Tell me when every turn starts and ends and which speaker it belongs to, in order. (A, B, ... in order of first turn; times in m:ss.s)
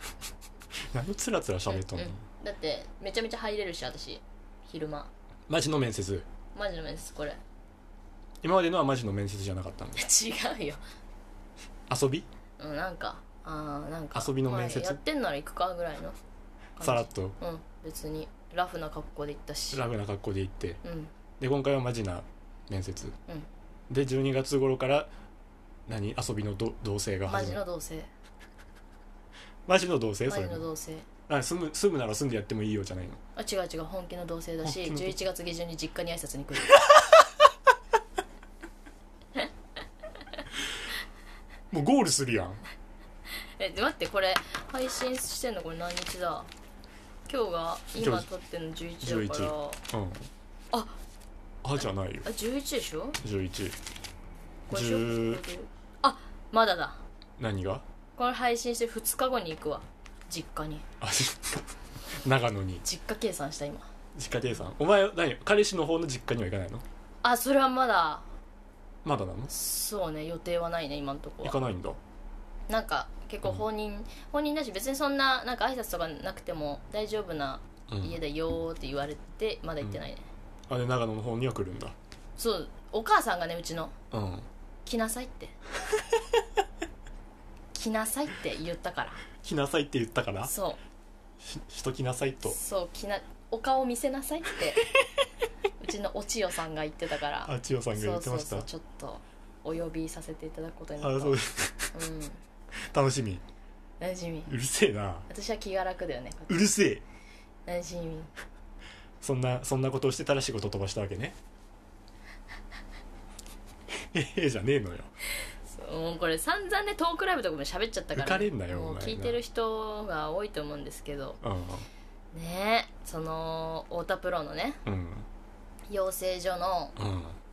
0:00.9-0:02.2 A
0:01.7-0:05.1 B
0:05.5-0:06.3 A
0:06.5-0:07.4 B
0:08.4-0:10.1 A
0:10.0-0:10.8 B
0:11.9-0:12.3 A
0:12.6-0:16.2 B
0:14.2-0:15.0 A
0:16.8-0:19.8 B
0:16.8-0:17.4 A
0:19.7-0:20.8 A
0:20.8-0:21.1 B
0:21.4-0:23.2 A
0:23.9-0:25.1 A
0:25.9-0:27.6 A
0:27.3-0:28.1 B
0:29.7-0:30.7 A
0:30.3-0:31.1 B
0:31.3-0:33.2 A
0:33.4-0:36.8 B
0:34.6-0:35.2 A
0:41.7-0:42.6 A
0:43.6-0:46.5 B
0:47.3-0:49.8 B
0:48.0-0:48.3 A
0:49.0-0:50.3 A
0:51.6-0:52.3 A
0:52.2-0:53.2 B
0:53.2-0:53.8 A
0:54.7-0:57.0 B
0:54.7-0:55.4 A
0:57.4-0:57.8 A
0:58.2-1:00.9 B
1:01.0-1:02.8 A
1:02.8-1:03.9 B
1:04.2-1:06.8 A
1:07.2-1:08.2 B
1:09.0-1:09.5 A
1:09.5-1:11.6 B
1:11.4-1:12.0 A
1:12.7-1:20.3 B
1:17.9-1:18.2 A
1:20.7-1:22.0 A
1:22.4-1:23.9 B
1:24.1-1:24.5 A
1:24.8-1:25.6 B
1:27.7-1:29.2 B
1:29.4-1:30.5 A
1:30.5-1:30.8 B
1:31.4-1:32.6 A
1:32.5-1:34.8 B
1:34.8-1:35.1 A
1:35.8-1:41.4 B
1:37.4-1:38.7 A
1:41.0-1:42.0 A
1:41.9-1:42.4 B
1:42.9-1:43.4 A
1:44.0-1:44.5 B
1:44.5-1:45.2 A
1:45.3-1:46.7 B
1:46.5-1:47.0 A
1:47.7-1:48.3 B
1:49.2-1:51.4 A
1:54.1-1:55.1 A
1:55.7-2:01.4 B
1:58.2-1:59.4 A
2:01.4-2:01.9 A
2:02.3-2:04.8 B
2:04.8-2:05.3 A
2:05.9-2:07.0 B
2:07.0-2:07.4 A